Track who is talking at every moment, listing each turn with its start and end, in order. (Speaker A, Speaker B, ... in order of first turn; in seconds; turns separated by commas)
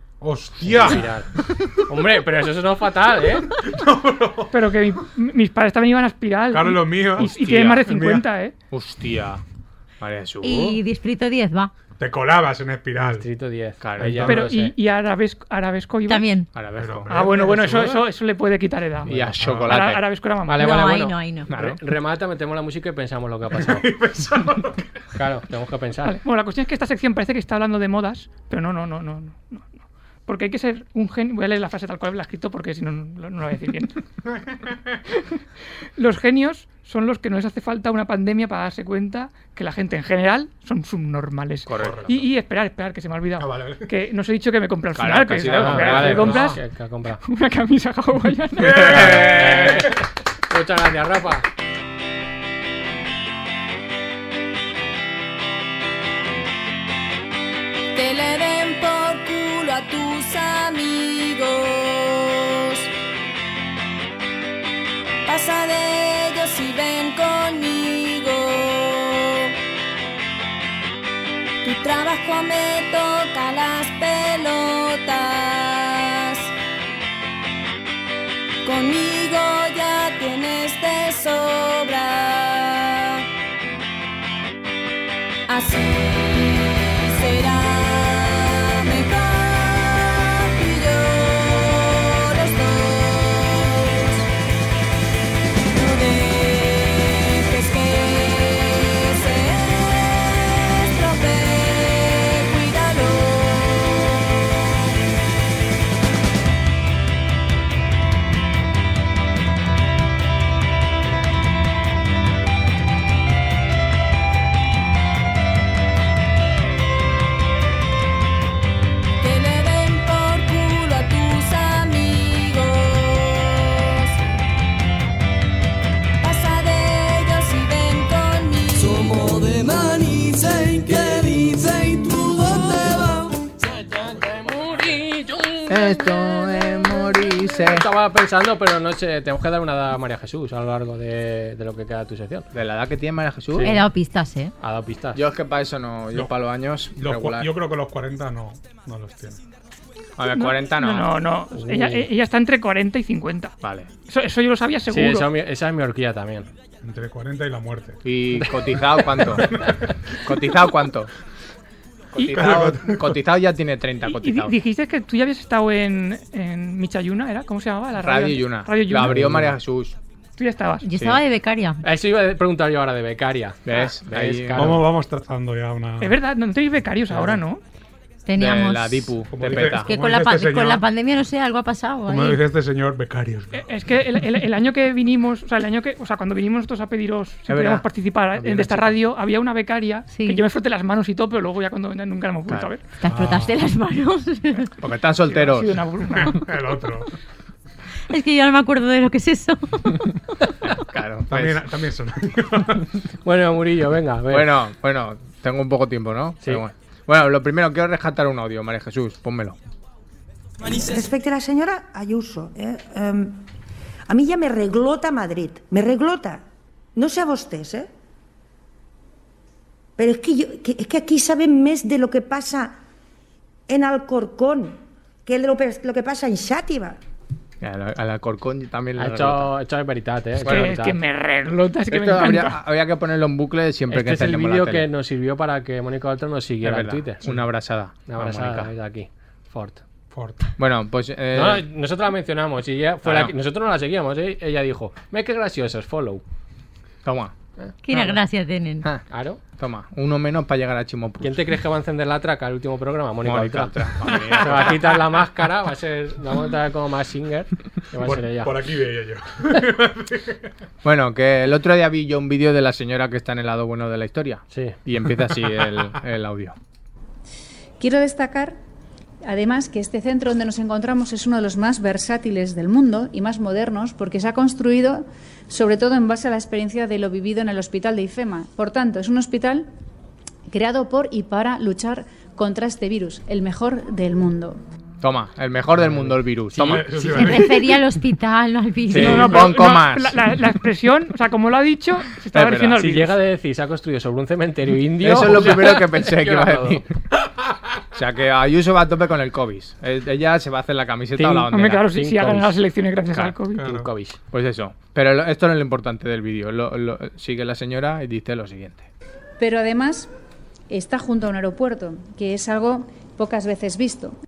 Speaker A: 0.2-1.6, Speaker B: 0.6-1.3, Speaker B: 1.9-3.5, Speaker A: 3.5-4.6, Speaker C: 4.5-8.5, Speaker A: 6.5-8.2, Speaker D: 7.2-7.9, Speaker D: 8.7-9.4, Speaker D: 10.0-10.8, Speaker E: 10.4-11.7, Speaker A: 12.0-13.3, Speaker B: 13.1-14.7, Speaker D: 13.8-14.4, Speaker A: 14.0-14.4, Speaker C: 14.3-16.4, Speaker E: 16.1-16.5, Speaker D: 16.5-17.1, Speaker A: 16.8-18.1, Speaker C: 17.1-20.8, Speaker D: 19.1-20.0, Speaker A: 19.4-19.7, Speaker B: 20.4-23.9, Speaker E: 20.6-21.5, Speaker D: 21.5-21.8, Speaker A: 23.5-24.9, Speaker B: 25.1-26.2, Speaker C: 26.0-34.0, Speaker C: 36.0-46.6, Speaker D: 41.7-42.2, Speaker A: 41.8-42.1, Speaker A: 43.4-43.9, Speaker D: 45.0-46.5, Speaker B: 45.5-47.2, Speaker C: 47.2-49.2, Speaker A: 48.6-49.9, Speaker D: 48.6-49.9, Speaker B: 48.8-51.5, Speaker F: 57.9-62.9, Speaker F: 65.3-69.5, Speaker F: 71.6-76.5, Speaker F: 78.6-83.2, Speaker F: 85.5-94.2, Speaker F: 95.5-105.0, Speaker F: 119.2-124.2, Speaker F: 126.2-129.2, Speaker G: 129.0-133.4, Speaker B: 134.7-135.4, Speaker D: 135.7-137.9, Speaker B: 137.7-142.5, Speaker D: 142.5-143.7, Speaker B: 143.5-143.8, Speaker E: 143.6-144.5, Speaker B: 144.6-145.2, Speaker D: 145.2-147.5, Speaker A: 147.0-149.4, Speaker D: 150.2-151.1, Speaker C: 150.3-155.3, Speaker B: 151.5-152.1, Speaker D: 153.6-153.9, Speaker B: 154.9-156.5, Speaker A: 156.8-158.0, Speaker D: 158.0-159.6, Speaker A: 159.2-159.9, Speaker D: 160.2-161.1, Speaker D: 162.1-164.6, Speaker A: 162.2-163.2, Speaker C: 164.0-169.2, Speaker D: 168.0-169.9, Speaker B: 169.1-169.5, Speaker C: 170.4-170.9, Speaker E: 170.8-171.8, Speaker D: 170.9-171.2, Speaker B: 171.8-174.9, Speaker D: 173.7-174.8, Speaker A: 174.6-176.2, Speaker C: 176.0-177.6, Speaker B: 177.1-177.4, Speaker E: 178.3-182.4, Speaker D: 178.4-179.9, Speaker A: 179.3-180.9, Speaker A: 182.1-183.7, Speaker C: 183.6-192.8, Speaker D: 187.5-187.8, Speaker E: 190.1-190.4, Speaker E: 193.0-194.7, Speaker A: 193.1-193.6, Speaker D: 194.8-195.8, Speaker C: 195.3-196.4, Speaker A: 196.1-197.1, Speaker E: 198.1-200.2, Speaker D: 200.6-201.6, Speaker A: 201.3-202.9, Speaker B: 203.2-204.5, Speaker D: 204.3-209.6, Speaker H: 210.6-213.4, Speaker H: 214.1-216.4, Speaker H: 217.0-217.9, Speaker H: 220.0-222.8, Speaker H: 223.7-227.0, Speaker D: 227.6-229.5, Speaker B: 229.0-231.0, Speaker D: 230.4-230.8, Speaker C: 230.5-232.6, Speaker D: 231.9-234.9, Speaker B: 233.9-237.2, Speaker D: 236.6-238.7, Speaker B: 238.1-239.8, Speaker A: 240.1-240.4, Speaker D: 240.6-241.6, Speaker B: 241.3-246.2, Speaker D: 243.0-243.3, Speaker D: 247.1-247.3, Speaker B: 247.6-248.2, Speaker E: 247.8-248.9, Speaker B: 249.1-249.4, Speaker D: 249.6-251.4, Speaker B: 251.2-253.8, Speaker D: 253.2-254.8, Speaker A: 254.1-254.7, Speaker B: 254.4-258.6, Speaker A: 257.9-260.5, Speaker D: 260.8-266.6, Speaker I: 267.8-268.6, Speaker I: 269.2-279.7, Speaker I: 280.5-284.6, Speaker D: 285.0-286.9, Speaker B: 285.8-287.0, Speaker A: 286.6-287.8, Speaker E: 286.9-289.6, Speaker D: 288.9-290.2, Speaker C: 288.9-293.2, Speaker D: 292.3-292.8, Speaker B: 292.8-296.8, Speaker D: 295.0-297.0, Speaker D: 297.9-301.9, Speaker B: 301.2-302.6, Speaker C: 301.5-303.7, Speaker A: 303.6-303.9, Speaker B: 303.6-304.2, Speaker D: 304.3-308.9, Speaker I: 309.4-310.1, Speaker I: 310.7-314.1